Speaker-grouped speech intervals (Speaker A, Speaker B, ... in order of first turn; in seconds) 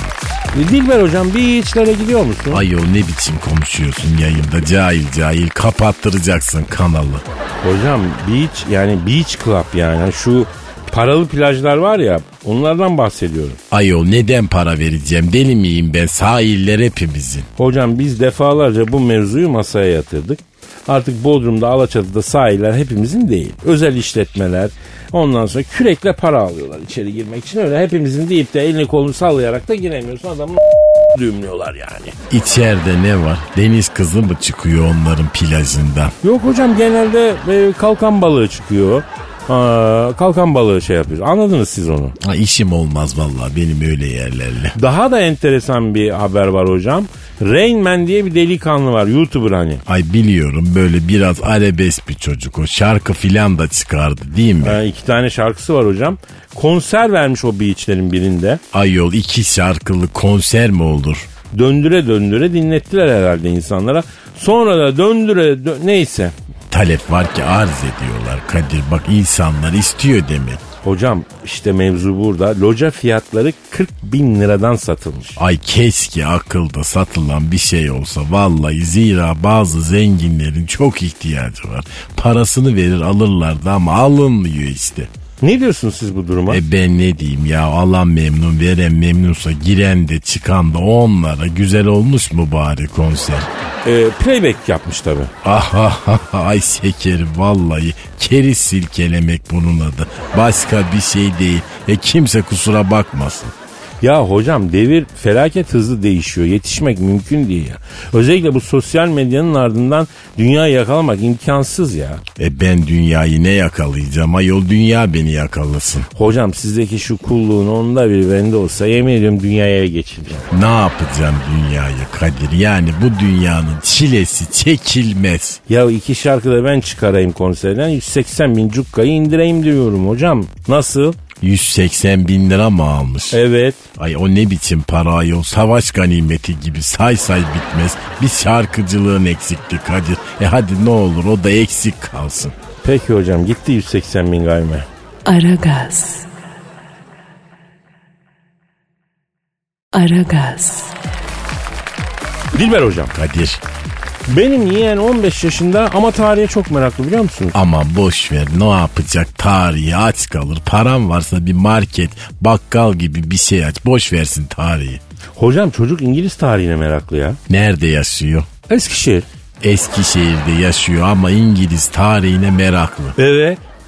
Speaker A: 0.5-2.6, 7.6-13.6, 17.6-32.2, 36.2-42.2, 44.8-49.8, 54.6-58.6, 61.5-66.3, 70.8-75.4, 85.4-86.6, 93.8-95.3, 104.0-112.2, 116.2-120.5, 125.7-131.2, 133.3-133.8, 142.8-144.9, 152.5-153.1, 154.3-157.6, 165.4-167.4, 168.7-169.3, 173.2-173.6
Speaker B: 2.5-7.2, 13.7-17.5, 32.3-36.2, 42.2-44.8, 49.9-54.8, 58.7-61.3, 66.7-70.6, 75.4-85.1, 86.5-93.5, 95.4-103.5, 112.4-116.1, 120.5-125.6, 131.4-133.4, 133.9-142.6, 153.1-153.6, 157.5-165.0, 167.5-168.5, 169.6-173.2
Speaker C: 145.3-146.3, 149.9-150.9